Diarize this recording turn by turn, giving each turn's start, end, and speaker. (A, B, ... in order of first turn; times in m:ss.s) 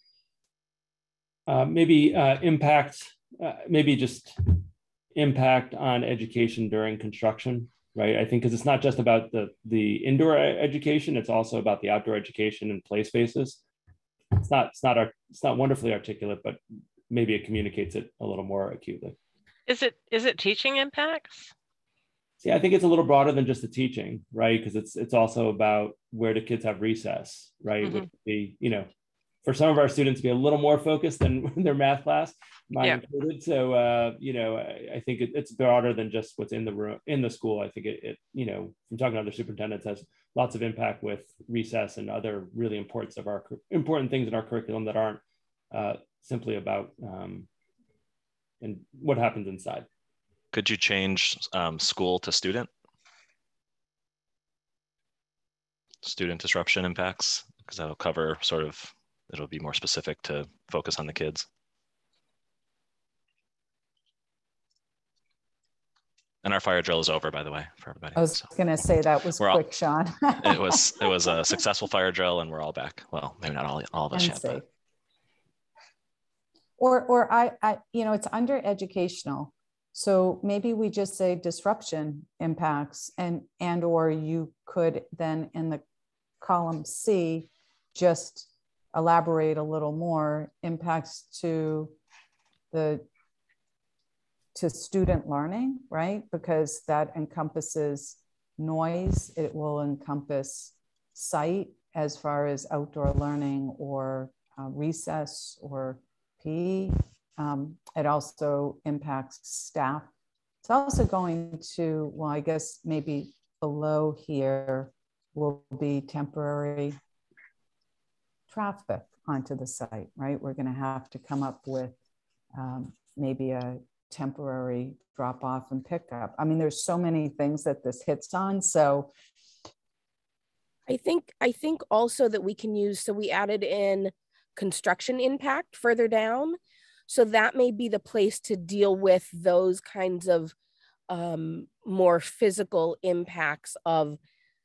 0:01.5-0:13.6 A
0:14.4-0:16.6 A
0:17.1-0:19.2 A
0:19.7-0:21.5 B
0:22.4-0:28.9 A
0:27.8-0:28.1 B
0:29.4-0:47.5 A
0:48.6-0:49.9 A
0:50.5-0:52.7 C
0:56.0-1:01.5 C
1:06.4-1:08.5 C
1:08.2-1:11.1 D
1:10.4-1:14.6 C
1:14.1-1:14.6 D
1:16.8-1:25.8 D
1:26.4-1:32.0 D
1:32.7-1:33.1 D
1:34.6-1:50.1 D
1:50.6-1:57.0 D
1:58.5-2:02.0 D
2:02.5-2:09.1 D
2:10.9-2:20.6 E
2:21.1-2:24.2 E